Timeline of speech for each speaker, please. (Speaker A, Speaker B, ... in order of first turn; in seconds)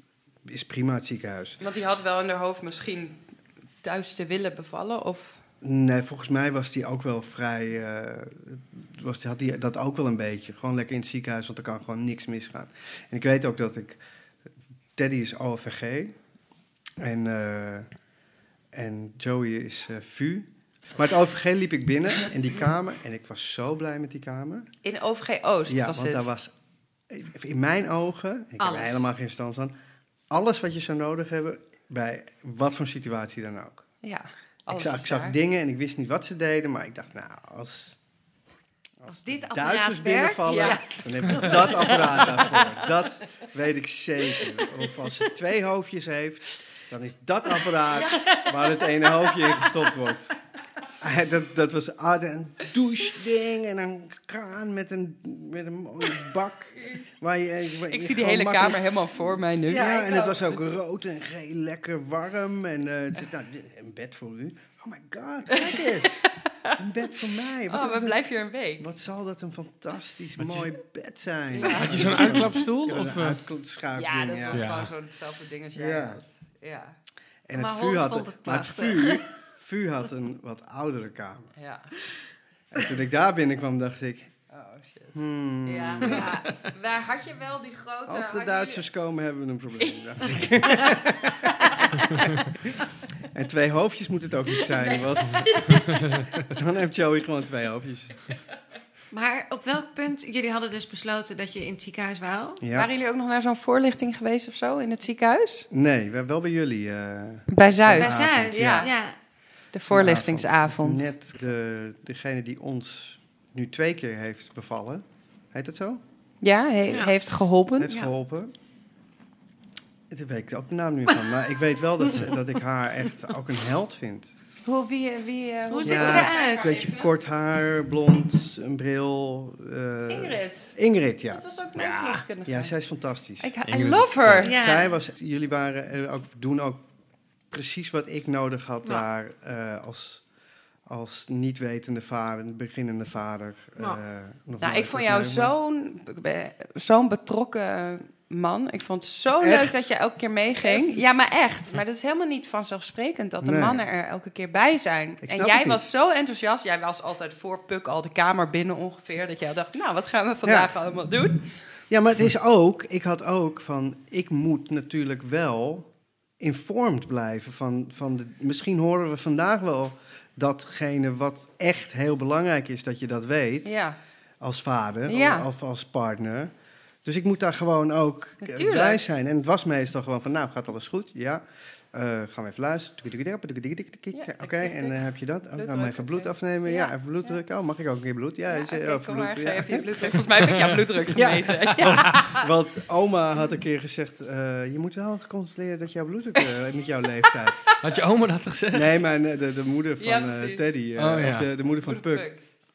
Speaker A: 0.4-1.6, 5.6-14.0, 14.9-16.1, 17.0-17.9, 18.7-24.7, 25.7-26.5, 27.1-29.7, 30.3-33.8, 34.7-38.0, 39.0-50.3, 50.9-59.0, 59.7-68.2, 68.8-74.7, 75.7-76.2, 77.5-81.5, 82.7-84.3, 85.1-86.3, 88.0-98.2, 102.6-102.9, 105.7-108.9, 109.9-116.0, 117.8-118.5, 120.1-124.3, 125.8-131.4, 132.4-133.5, 134.4-136.8, 137.5-140.2, 140.8-145.5, 149.4-149.7, 150.6-151.1, 153.4-153.8, 155.2-155.8, 160.4-160.7, 161.9-165.9, 166.4-173.8, 174.4-176.5, 177.0-197.7, 198.7-202.3
Speaker B: 1.6-3.2, 3.8-5.4, 24.8-26.3, 34.0-35.4, 40.5-42.6, 57.9-60.1, 65.5-66.8, 67.7-68.9, 71.5-72.4, 73.9-77.0, 81.5-81.9, 84.5-88.9, 95.2-96.0, 102.7-105.7, 107.5-108.9, 109.7-111.1, 116.4-118.0, 124.6-127.1, 130.1-130.7, 131.3-132.7, 133.4-134.5, 144.6-161.5, 173.6-174.0, 175.1-175.5, 178.4-179.0, 184.1-187.3, 188.5-192.4, 200.0-200.8, 201.7-202.4
Speaker C: 28.6-29.0, 39.1-42.7, 48.0-49.3, 59.7-60.4, 77.5-79.2, 86.0-86.5, 99.1-102.6, 108.0-109.2, 125.7-126.9, 134.4-134.9
Speaker D: 70.4-70.7, 71.7-73.4, 74.5-74.9, 95.9-96.2, 131.8-132.2, 133.6-134.4, 197.8-199.0, 200.9-201.5